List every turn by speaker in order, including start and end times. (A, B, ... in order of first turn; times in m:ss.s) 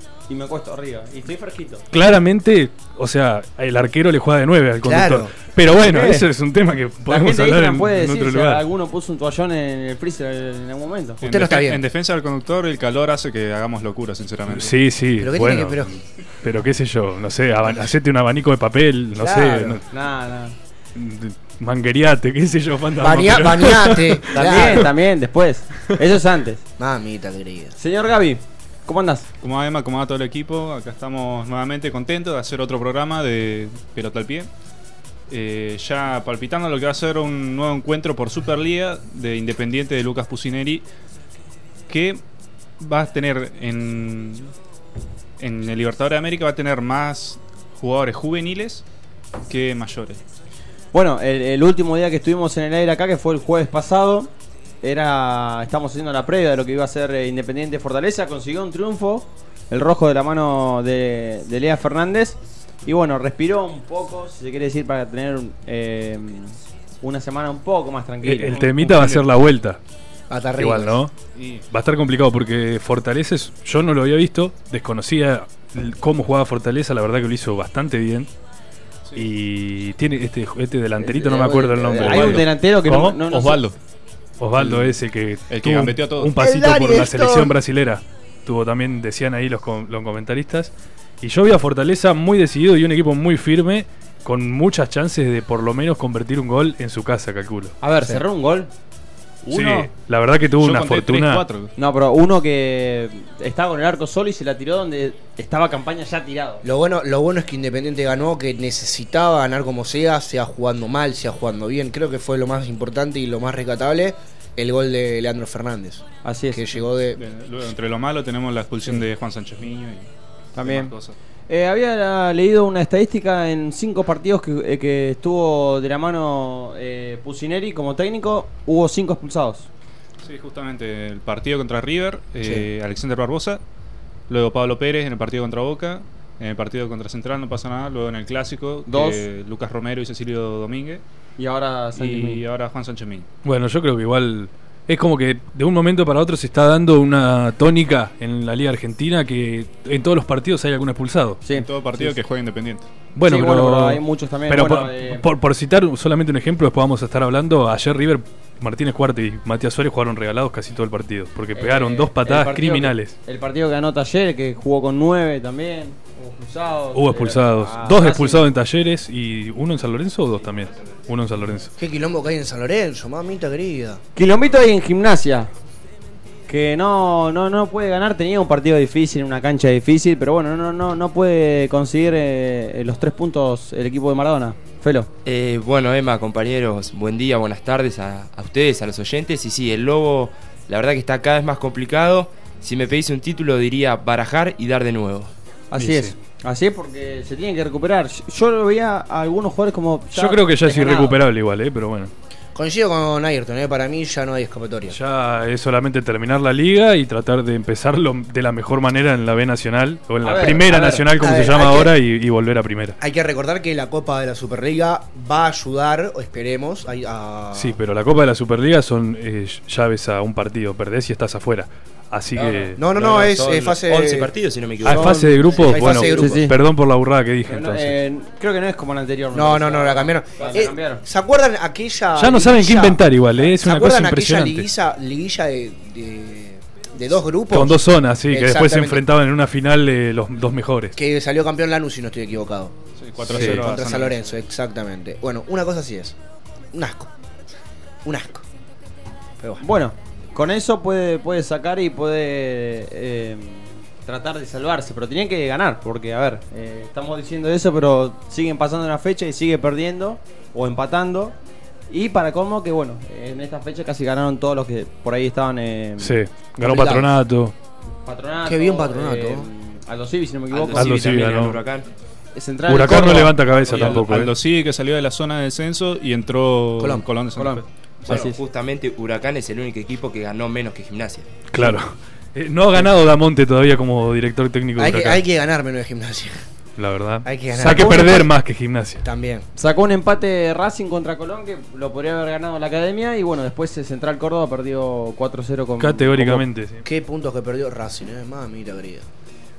0:00.3-0:01.8 A
0:01.9-0:08.6 B
0:04.8-0:05.4 C
0:05.8-0:06.3 A
0:07.1-0:11.2 A
0:11.2-0:11.8 C
0:11.2-0:14.8 D
0:14.5-0:19.8 B
0:15.2-0:15.9 C
0:19.2-0:19.8 C
0:19.9-0:20.5 A
0:20.9-0:24.8 B
0:23.0-0:24.9 C
0:24.3-0:26.6 A
0:26.8-0:27.7 C
0:27.8-0:29.2 A
0:29.4-0:34.5 D
0:35.3-0:40.8 D
0:41.9-0:42.2 D
0:42.8-0:44.5 D
0:45.4-0:48.8 D
0:49.5-0:50.2 D
0:50.9-0:54.3 A
0:54.8-1:09.1 A
1:08.2-1:09.8 B
1:08.8-1:09.2 D
1:10.3-1:11.0 C
1:10.6-1:11.1 B
1:11.3-1:11.6 D
1:11.7-1:18.3 B
1:19.2-1:23.1 B
1:21.0-1:23.6 A
1:22.0-1:23.7 D
1:24.4-1:37.7 B
1:24.6-1:25.0 D
1:25.5-1:26.3 D
1:26.4-1:27.5 C
1:37.8-1:38.7 A
1:39.4-1:39.9 D
1:39.5-1:41.4 B
1:40.6-1:41.7 D
1:41.8-1:46.6 A
1:46.6-1:57.2 C
1:56.2-1:56.6 A
1:57.1-2:01.2 D
2:00.6-2:00.9 A
2:01.5-2:09.7 A
2:10.2-2:13.6 D
2:14.3-2:21.0 D
2:18.9-2:19.2 A
2:21.4-2:22.4 A
2:22.0-2:23.3 D
2:23.4-2:31.4 B
2:31.4-2:32.1 A
2:31.5-2:32.9 D
2:33.1-2:43.1 B
2:33.2-2:35.2 A
2:41.5-2:48.4 A
2:46.9-2:51.7 B
2:51.8-2:54.0 C
2:54.2-2:55.5 A
2:56.5-3:05.1 A
3:05.2-3:15.3 E
3:15.7-3:21.2 A
3:15.7-3:16.1 B
3:20.1-3:22.1 B
3:22.5-3:25.0 C
3:24.9-3:33.0 B
3:30.2-3:31.0 A
3:31.2-3:32.0 C
3:33.0-3:37.8 C
3:37.5-3:42.8 B
3:42.3-3:46.3 E
3:42.8-3:44.3 C
3:44.8-3:46.5 C
3:44.8-3:47.9 B
3:46.1-3:46.6 A
3:47.5-3:51.0 A
3:49.3-3:59.0 C
3:52.2-3:54.6 B
3:57.5-4:01.0 B
4:01.0-4:06.2 C
4:03.0-4:04.2 D
4:03.3-4:03.6 E
4:06.7-4:07.1 C
4:08.0-4:08.4 C
4:09.6-4:21.4 A
4:21.9-4:26.2 A
4:26.0-4:27.5 B
4:26.6-4:27.1 C
4:28.0-4:31.0 A
4:28.4-4:29.5 C
4:30.5-4:31.9 E
4:30.7-4:31.6 B
4:32.4-4:34.0 A
4:32.7-4:34.3 B
4:33.6-4:37.6 D
4:36.8-4:37.0 C
4:37.4-4:38.4 A
4:38.0-4:41.3 E
4:41.5-4:45.2 B
4:44.8-4:46.5 C
4:46.8-4:49.0 B
4:47.2-4:48.3 C
4:47.7-4:48.1 A
4:49.0-4:49.4 C
4:49.6-4:56.4 A
4:55.8-4:56.8 B
4:56.8-4:59.0 C